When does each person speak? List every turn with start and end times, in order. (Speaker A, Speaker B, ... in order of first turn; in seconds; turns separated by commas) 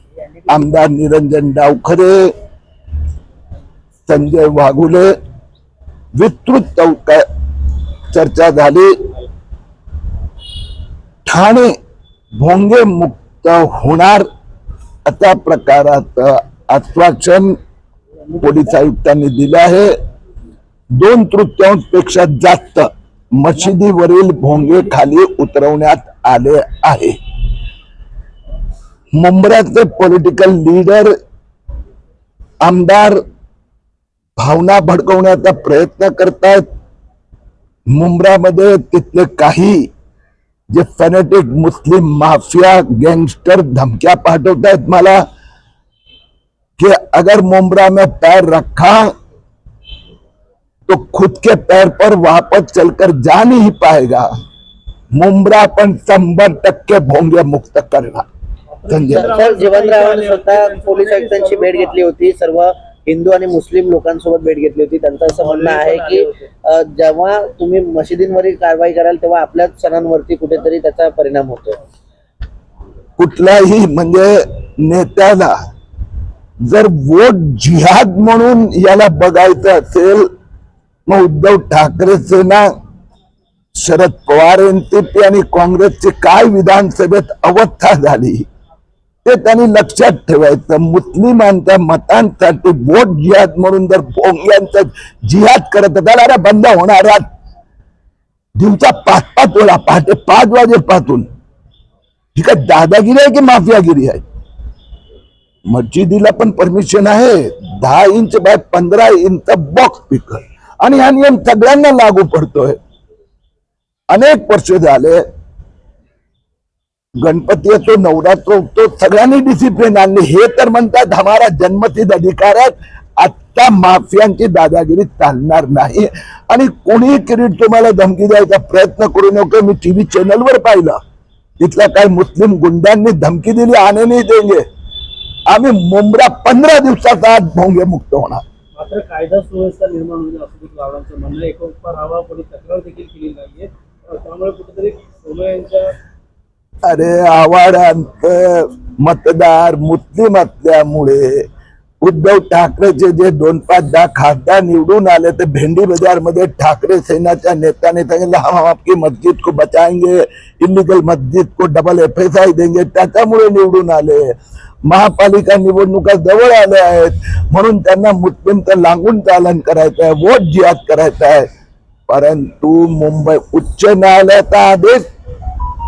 Speaker A: 0.5-2.3, Speaker A: 4.1-5.1, Speaker A: 6.2-7.2, Speaker A: 8.1-8.9, Speaker A: 11.2-11.7, Speaker A: 12.4-14.2, Speaker A: 15.1-17.6, Speaker A: 18.4-19.9, Speaker A: 20.9-27.2, Speaker A: 29.1-31.1, Speaker A: 32.6-33.2, Speaker A: 34.4-36.6, Speaker A: 37.9-39.9, Speaker A: 40.7-45.2, Speaker A: 46.8-49.1, Speaker A: 50.9-54.3, Speaker A: 55.1-58.3, Speaker B: 58.7-62.0, Speaker A: 58.9-59.3, Speaker C: 59.1-71.8, Speaker B: 65.4-66.5, Speaker A: 73.2-75.5, Speaker A: 76.6-80.3, Speaker A: 81.1-82.7, Speaker A: 83.7-88.5, Speaker A: 89.2-97.2, Speaker A: 98.5-101.3, Speaker A: 102.3-104.2, Speaker A: 105.7-112.8, Speaker A: 114.1-115.2, Speaker A: 117.2-131.0, Speaker A: 131.6-134.6, Speaker A: 135.5-138.4, Speaker B: 138.7-145.9, Speaker A: 146.8-151.4, Speaker A: 152.0-164.3, Speaker A: 164.8-171.5, Speaker A: 172.1-175.0